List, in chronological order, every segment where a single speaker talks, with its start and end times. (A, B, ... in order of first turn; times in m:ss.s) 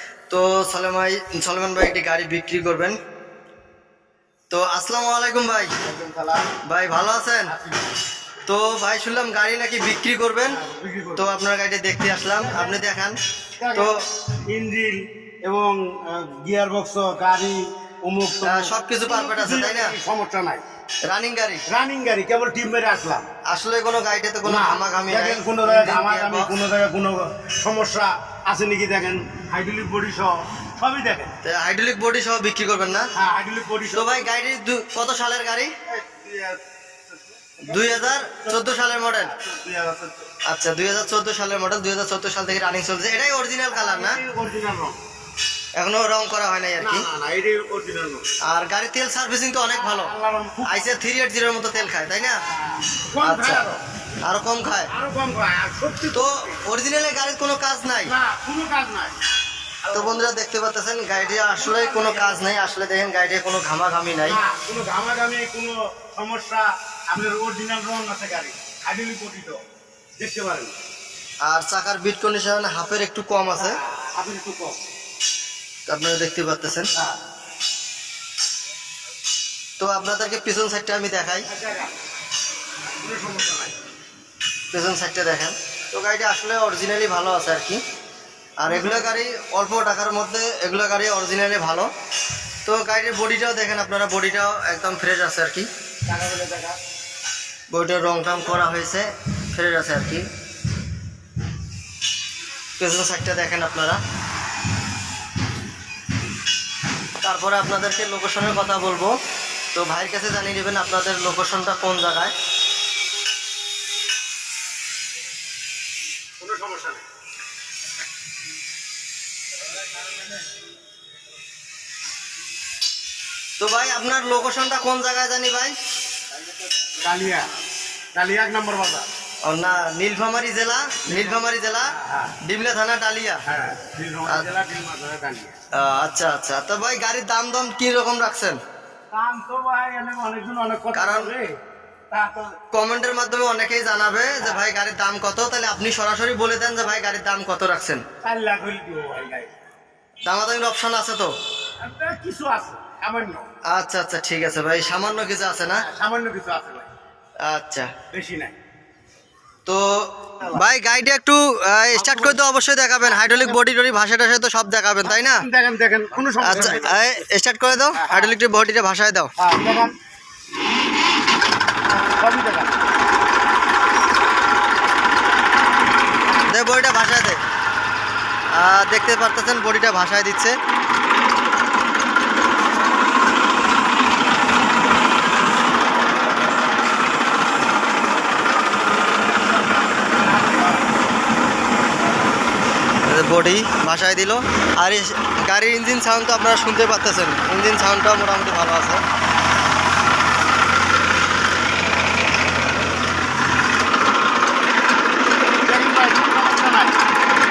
0:00.3-0:03.0 A
0:04.5-0:05.7 A
0:05.8-0:06.5 B
0:06.6-0:07.5 A
0:07.5-0:07.9 B
0:08.5-0:10.6 A
0:10.5-0:11.3 B
0:11.2-0:13.1 A
0:12.3-0:12.8 B
0:13.6-0:20.6 B
0:13.7-0:14.0 A
0:18.4-0:20.0 A
0:21.1-0:21.6 A
0:21.7-0:23.3 B
0:23.5-0:26.5 A
0:24.4-0:31.4 B
0:31.4-0:33.1 A
0:33.1-0:34.3 B
0:33.9-0:35.7 A
0:35.9-0:40.3 B
0:37.7-0:39.3 A
0:40.5-0:44.2 A
0:43.7-0:45.0 B
0:45.8-0:47.1 A
0:46.8-0:48.3 B
0:48.4-0:50.1 A
0:49.7-0:51.0 B
0:50.7-0:52.4 A
0:52.5-0:53.8 B
0:53.2-0:53.6 A
0:54.2-0:54.9 A
0:54.9-0:56.6 B
0:56.1-0:58.1 A
0:58.0-0:59.2 B
0:59.8-1:00.3 B
0:59.9-1:04.4 A
1:01.2-1:02.6 B
1:04.2-1:09.6 B
1:10.2-1:10.7 B
1:11.4-1:13.8 A
1:13.6-1:14.8 B
1:15.9-1:16.9 A
1:19.8-1:21.5 A
1:21.5-1:21.9 B
1:22.8-1:23.8 B
1:24.7-1:27.8 A
1:28.6-1:31.9 A
1:28.7-1:29.1 B
1:32.6-1:35.7 A
1:36.1-1:36.8 B
1:37.7-1:40.2 A
1:42.8-1:44.0 A
1:47.2-1:49.1 A
1:49.7-1:52.3 A
1:56.4-1:57.0 B
2:03.6-2:05.8 A
2:07.0-2:07.5 B
2:08.2-2:09.1 B
2:09.5-2:11.9 A
2:11.1-2:12.4 B
2:12.4-2:13.4 A
2:13.4-2:15.6 B
2:15.7-2:18.6 A
2:19.1-2:21.6 B
2:20.9-2:21.3 A
2:22.1-2:22.6 B
2:22.7-2:28.0 A
2:28.2-2:29.5 B
2:30.2-2:31.3 A
2:31.8-2:33.5 B
2:33.7-2:35.8 A
2:35.8-2:36.9 B
2:37.5-2:37.9 A
2:38.1-2:38.6 B
2:39.7-2:45.5 A
2:41.9-2:42.4 B
2:43.0-2:43.6 B
2:45.0-2:47.2 B
2:46.4-2:49.3 A
2:47.9-2:48.3 B
2:49.4-2:49.9 B
2:51.9-2:52.8 B
2:56.5-2:57.4 A
2:58.6-3:00.6 A
3:10.1-3:10.9 B
3:13.1-3:19.0 A
3:25.6-3:27.0 B